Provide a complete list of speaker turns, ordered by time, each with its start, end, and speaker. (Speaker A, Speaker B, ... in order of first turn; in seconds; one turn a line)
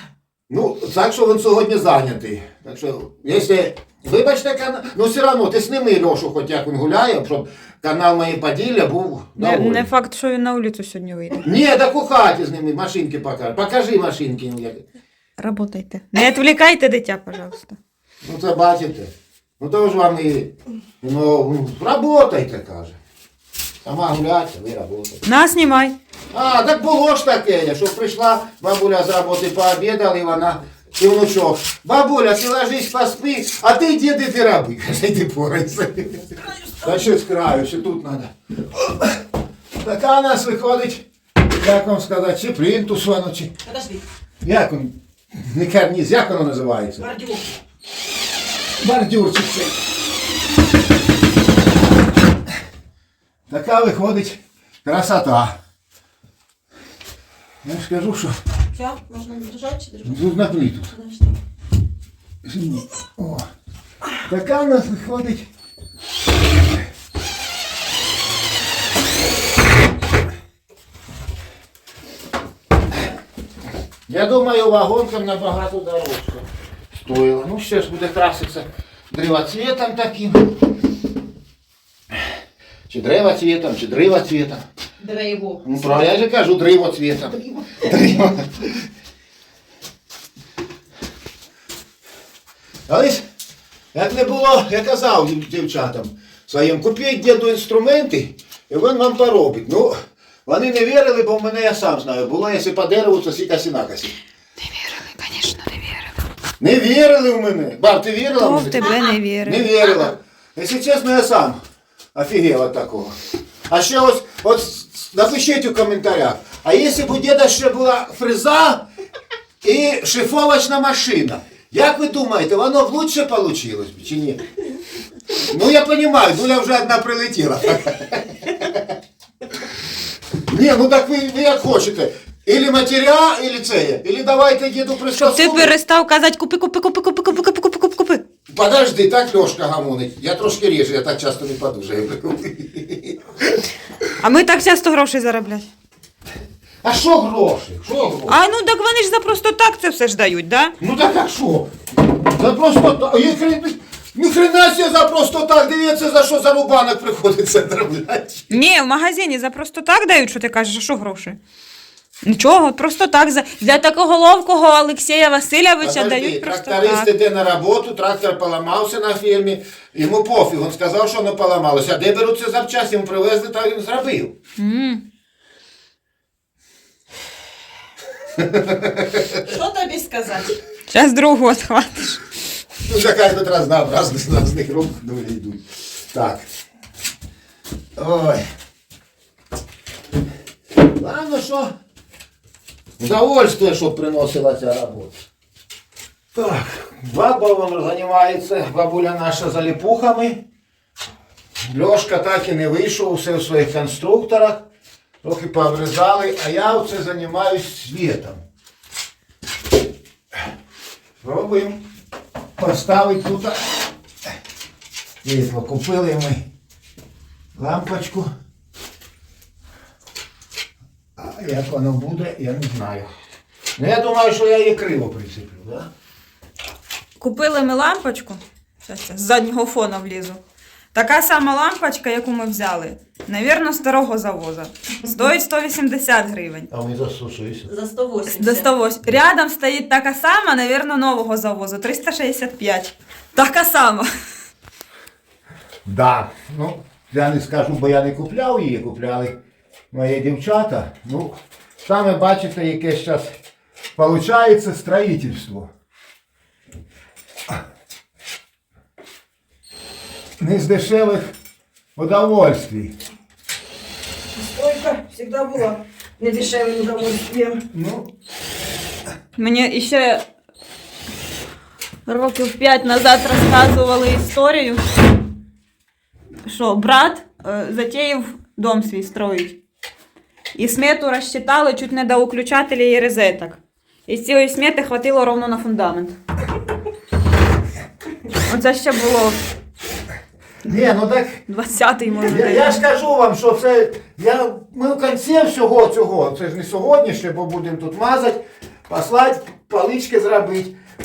Speaker A: 0.5-9.9
Speaker B: 9.4-11.4
Speaker A: 11.4-14.8
Speaker B: 15.4-17.8
Speaker A: 18.2-23.0
Speaker A: 23.8-25.2
Speaker B: 25.2-25.9
Speaker A: 26.3-36.3
Speaker C: 36.5-37.1
Speaker A: 36.8-39.2
Speaker A: 39.8-43.5
Speaker C: 43.6-44.0
Speaker A: 44.4-47.1
Speaker C: 47.0-47.5
Speaker A: 48.8-49.8
Speaker A: 53.5-55.6
Speaker A: 57.6-58.4
Speaker C: 58.7-60.4
Speaker A: 60.1-60.9
Speaker C: 60.9-61.4
Speaker A: 62.5-63.5
Speaker A: 64.3-65.5
Speaker A: 74.1-80.5
Speaker A: 82.9-84.6
Speaker C: 85.0-85.7
Speaker A: 85.6-88.8
Speaker A: 92.9-93.2
Speaker A: 93.9-100.0
Speaker A: 100.5-104.2
Speaker B: 104.6-106.1
Speaker A: 106.6-108.9
Speaker B: 108.4-109.7
Speaker A: 109.4-111.6
Speaker A: 112.2-113.2
Speaker A: 113.7-118.9
Speaker A: 119.6-124.4
Speaker A: 125.5-128.9
Speaker A: 130.5-135.7
Speaker B: 135.2-138.2
Speaker A: 138.5-143.6
Speaker B: 144.2-145.7
Speaker A: 146.8-148.4
Speaker B: 148.3-150.8
Speaker A: 150.8-158.5
Speaker B: 158.5-161.4
Speaker B: 162.2-167.1
Speaker A: 165.8-174.3
Speaker B: 174.6-175.0
Speaker A: 178.3-179.4
Speaker C: 179.4-180.6
Speaker B: 180.9-182.2
Speaker A: 182.8-186.4
Speaker A: 188.0-188.4
Speaker A: 190.8-191.7
Speaker A: 193.0-195.2
Speaker A: 196.3-200.4
Speaker A: 201.7-204.7
Speaker A: 205.2-208.4
Speaker A: 211.2-211.8
Speaker A: 212.6-213.6
Speaker A: 215.2-216.5
Speaker A: 217.6-218.3
Speaker A: 221.2-223.1
Speaker A: 223.8-225.9
Speaker B: 227.2-230.4
Speaker B: 230.9-236.7
Speaker A: 236.7-237.7
Speaker C: 237.7-238.7
Speaker B: 238.3-244.1
Speaker A: 245.8-249.4
Speaker A: 249.9-253.4
Speaker A: 254.0-255.7
Speaker A: 260.4-261.3
Speaker A: 262.0-262.9
Speaker C: 264.4-267.6
Speaker A: 267.7-268.1
Speaker B: 269.4-270.2
Speaker B: 272.1-275.1
Speaker B: 276.5-279.6
Speaker B: 280.6-286.2
Speaker B: 288.5-289.4
Speaker A: 290.7-291.4
Speaker B: 291.5-292.8
Speaker A: 292.3-300.7